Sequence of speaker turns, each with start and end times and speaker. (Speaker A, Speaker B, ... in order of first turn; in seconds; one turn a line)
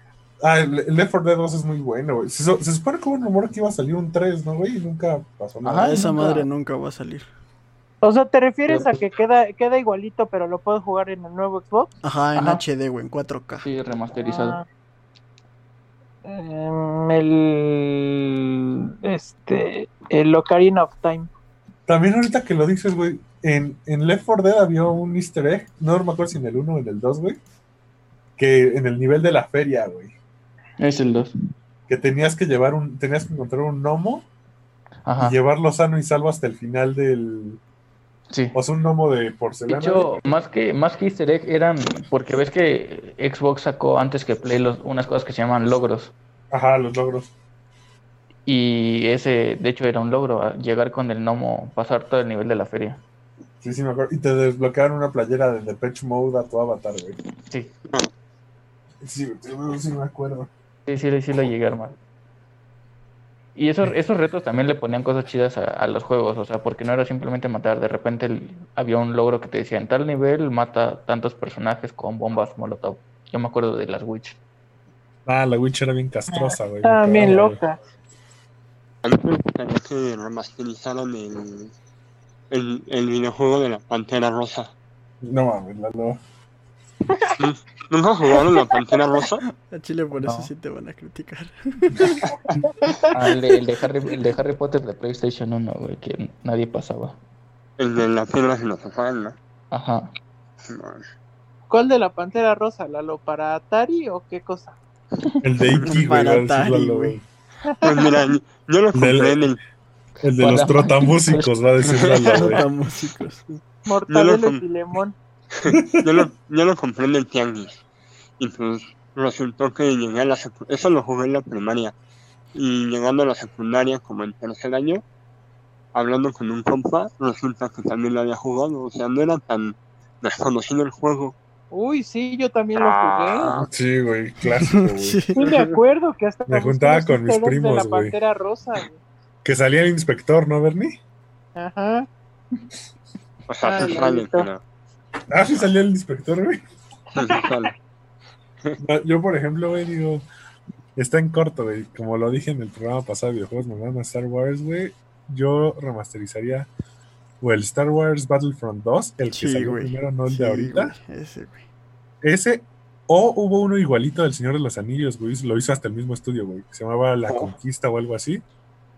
Speaker A: 0.4-6.0
Speaker B: 5.6-6.5
Speaker C: 5.8-7.2
Speaker D: 8.0-11.9
Speaker B: 8.7-9.0
Speaker C: 12.0-13.7
Speaker B: 12.4-12.6
Speaker B: 13.6-14.6
Speaker D: 14.2-14.7
Speaker D: 16.2-21.3
Speaker A: 21.9-27.4
Speaker A: 28.4-30.1
Speaker B: 30.8-31.3
Speaker A: 31.9-34.3
Speaker B: 35.1-35.4
Speaker A: 35.2-37.6
Speaker B: 38.3-38.6
Speaker A: 38.5-40.1
Speaker B: 39.7-46.1
Speaker A: 46.5-47.3
Speaker B: 48.5-53.0
Speaker A: 53.6-57.2
Speaker A: 59.0-60.5
Speaker B: 60.9-62.0
Speaker B: 63.5-74.4
Speaker A: 75.3-77.6
Speaker D: 76.3-77.8
Speaker E: 79.0-81.7
Speaker E: 82.5-84.7
Speaker A: 85.2-86.2
Speaker E: 87.4-89.4
Speaker C: 89.6-92.2
Speaker B: 90.2-90.5
Speaker D: 92.8-93.2
Speaker B: 93.1-97.2
Speaker E: 97.8-99.4
Speaker B: 99.7-100.1
Speaker E: 100.6-101.0
Speaker D: 101.7-104.8
Speaker A: 105.4-107.2
Speaker C: 105.8-107.2
Speaker D: 107.7-108.2
Speaker E: 107.8-109.6
Speaker A: 108.9-109.5
Speaker A: 110.2-112.7
Speaker B: 110.4-111.5
Speaker E: 111.8-112.6
Speaker C: 112.4-113.4
Speaker E: 113.5-114.6
Speaker D: 113.9-115.2
Speaker E: 115.5-117.8
Speaker A: 115.7-116.3
Speaker E: 118.4-121.9
Speaker E: 122.5-125.0
Speaker E: 125.9-131.3
Speaker D: 131.7-133.6
Speaker E: 132.8-133.7
Speaker A: 133.7-135.2
Speaker C: 134.6-135.4
Speaker D: 135.4-139.0
Speaker E: 135.4-135.7
Speaker A: 136.5-138.2
Speaker A: 139.4-141.0
Speaker D: 141.6-142.1
Speaker E: 143.5-144.6
Speaker D: 143.6-144.5
Speaker A: 145.3-146.6
Speaker E: 147.2-147.8
Speaker A: 148.8-150.3
Speaker A: 151.0-156.7
Speaker A: 157.4-160.9
Speaker C: 159.3-161.7
Speaker A: 162.2-168.4
Speaker E: 167.3-167.5